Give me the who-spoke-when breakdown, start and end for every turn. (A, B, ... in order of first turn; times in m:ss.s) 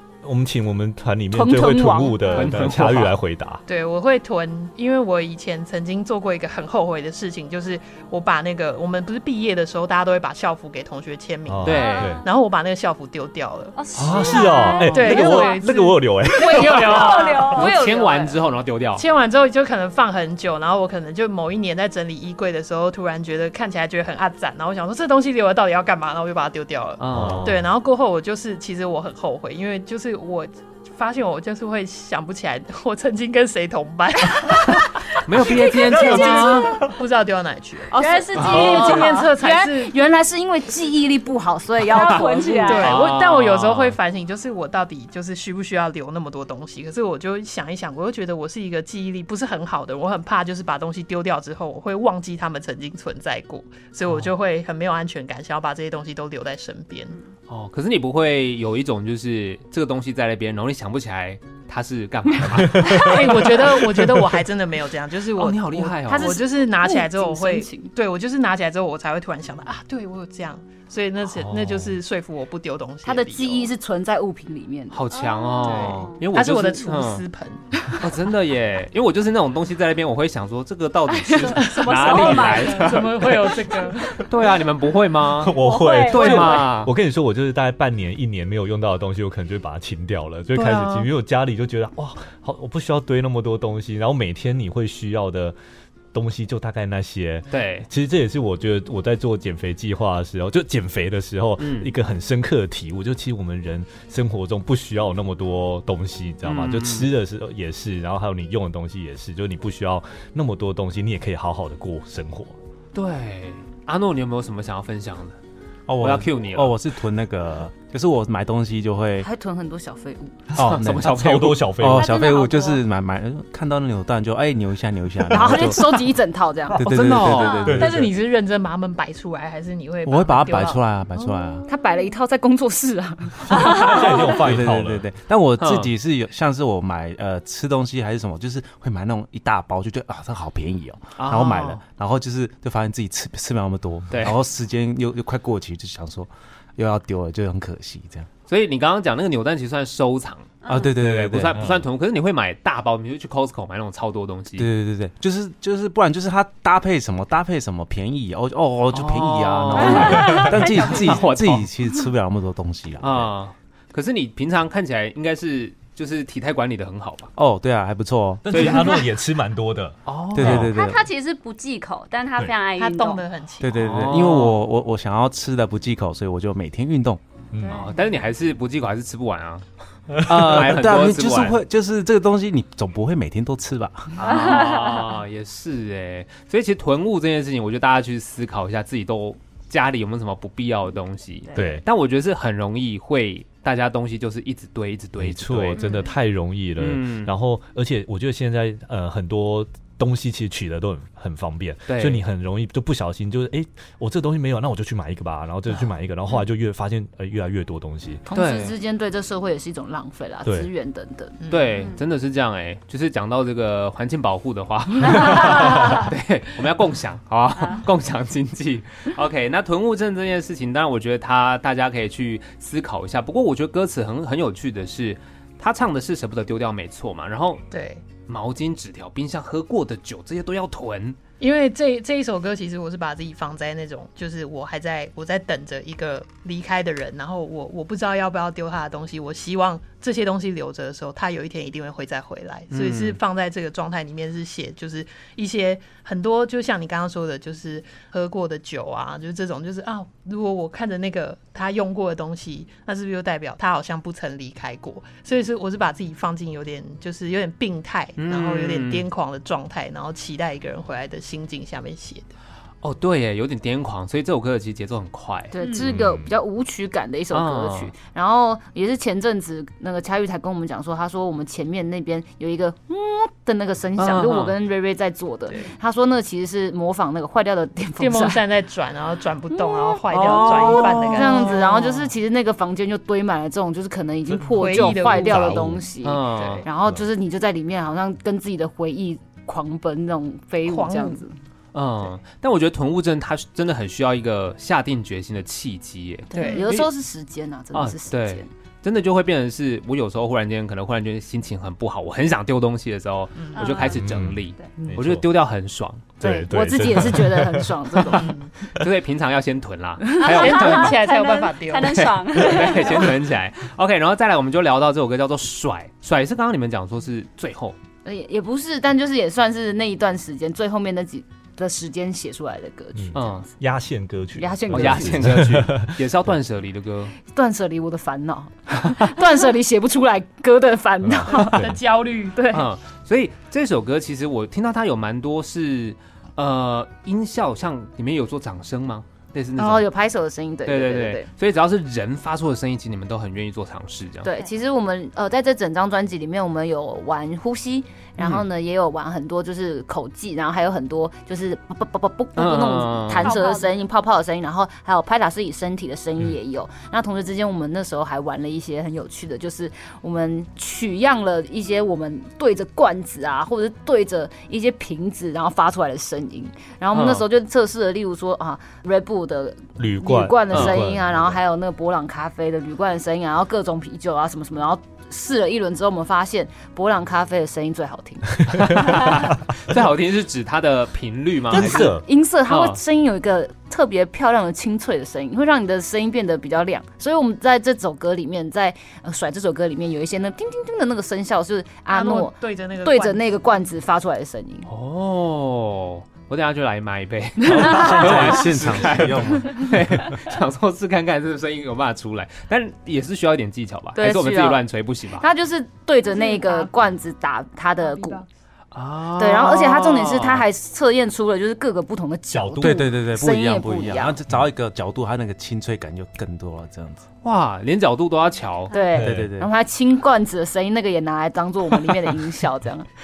0:00.2-0:03.6 A
0:01.3-0:02.4 B
0:02.3-0:03.2 C
0:03.7-0:17.7 D
0:11.5-0:12.2 A
0:11.6-0:12.1 C
0:11.7-0:12.2 E
0:13.7-0:15.6 E
0:14.0-0:17.4 A
0:16.4-0:18.4 E
0:17.5-0:19.0 C
0:19.0-0:39.9 D
0:27.0-0:27.5 C
0:27.1-0:27.7 A
0:35.2-0:36.7 C
0:35.4-0:36.9 E
0:37.9-0:39.3 E
0:38.0-0:42.9 B
0:38.4-0:38.9 C
0:41.9-0:42.9 E
0:41.9-0:44.0 C
0:42.6-0:57.2 D
0:57.5-1:03.6 C
1:02.5-1:03.3 A
1:02.9-1:13.7 D
1:05.4-1:06.4 C
1:06.1-1:07.9 B
1:11.3-1:12.0 A
1:13.0-1:15.0 B
1:14.9-1:17.2 C
1:15.1-1:16.2 E
1:15.7-1:16.0 B
1:15.8-1:18.0 D
1:18.0-1:23.6 C
1:21.2-1:23.3 E
1:21.4-1:24.2 D
1:24.2-1:26.9 C
1:25.4-1:35.6 A
1:25.6-1:26.7 E
1:30.5-1:31.0 C
1:36.1-1:52.5 A
1:37.5-1:37.9 C
1:41.6-1:41.9 C
1:46.4-1:47.1 C
1:52.9-1:55.4 C
1:55.9-1:59.3 F
1:56.0-1:56.8 C
1:59.2-2:00.5 B
2:00.5-2:02.1 A
2:00.6-2:01.8 C
2:00.6-2:01.2 F
2:01.7-2:06.1 F
2:01.9-2:02.8 E
2:05.3-2:06.8 B
2:06.8-2:08.0 F
2:06.8-2:07.8 C
2:07.4-2:07.6 E
2:07.6-2:08.1 A
2:07.6-2:11.6 D
2:10.0-2:11.7 F
2:11.6-2:14.0 B
2:13.5-2:15.0 A
2:14.3-2:28.3 F
2:15.6-2:15.9 C
2:21.2-2:21.8 C
2:24.1-2:24.4 C
2:28.5-2:34.7 C
2:30.6-2:30.9 E
2:30.7-2:31.7 F
2:31.6-2:31.8 A
2:34.6-2:43.3 F
2:38.9-2:41.7 C
2:39.8-2:41.2 E
2:40.2-2:40.5 A
2:43.0-2:47.3 C
2:47.4-2:48.6 F
2:48.4-2:50.7 A
2:48.5-2:49.0 C
2:50.0-2:50.7 C
2:50.3-2:51.0 F
2:50.7-2:53.2 E
2:52.7-2:53.7 D
2:53.6-2:57.2 F
2:53.7-2:54.6 C
2:57.5-2:57.8 A
2:57.7-2:59.6 C
3:00.1-3:00.5 A
3:00.2-3:01.6 C
3:00.2-3:04.2 F
3:04.2-3:15.8 C
3:04.3-3:04.8 E
3:11.5-3:11.8 A
3:15.2-3:28.2 A
3:16.8-3:17.3 C
3:21.9-3:22.2 C
3:28.3-3:31.4 B
3:28.3-3:28.7 C
3:31.4-3:31.9 D
3:31.5-3:47.6 C
3:35.2-3:35.9 E
3:47.7-3:48.0 D
3:48.2-3:51.2 C
3:51.4-4:22.3 D
4:02.7-4:03.2 C
4:18.2-4:19.0 C
4:22.8-4:25.5 C
4:25.5-4:38.4 B
4:25.6-4:25.9 E
4:25.8-4:26.3 A
4:27.3-4:27.9 C
4:34.0-4:34.5 C
4:38.0-4:42.1 D
4:40.1-4:41.5 C
4:40.3-4:51.4 B
4:44.5-4:46.7 D
4:45.1-4:45.8 A
4:46.0-4:46.6 C
4:50.6-4:51.2 D
4:51.7-4:56.9 C
4:56.3-4:58.5 B
4:56.3-4:56.7 D
4:56.4-4:56.6 E
4:57.7-5:06.1 C
5:03.4-5:03.8 D
5:03.5-5:04.0 E
5:03.9-5:05.3 A
5:06.2-5:08.0 A
5:06.2-5:08.3 B
5:08.1-5:08.5 D
5:08.7-5:11.0 C
5:10.2-5:13.1 E
5:10.2-5:13.1 D
5:11.8-5:17.8 C
5:18.0-5:23.5 B
5:22.9-5:26.0 A
5:23.1-5:23.4 C
5:24.4-5:25.2 B
5:24.7-5:27.1 C
5:27.3-5:31.6 B
5:31.0-5:31.8 A
5:31.4-5:32.6 D
5:32.5-5:39.9 C
5:39.6-5:41.3 B
5:40.6-5:44.3 C
5:44.2-6:19.0 B
5:48.2-5:48.4 C
5:52.4-5:53.4 C
5:53.2-5:53.7 E
6:06.9-6:07.2 C
6:09.8-6:11.4 A
6:10.5-6:10.8 C
6:18.6-6:22.0 C
6:21.5-6:22.0 A
6:21.5-6:34.7 B
6:22.5-6:22.8 C
6:31.9-6:33.3 D
6:34.7-6:45.2 C
6:37.6-6:40.0 F
6:44.0-6:44.6 B
6:45.2-6:48.2 B
6:46.2-6:46.6 E
6:48.7-6:50.4 C
6:49.2-6:54.2 B
6:52.3-6:52.9 A
6:52.6-6:57.0 F
6:57.2-6:58.7 C
6:58.7-7:02.9 B
6:58.9-6:59.3 A
6:59.0-6:59.5 F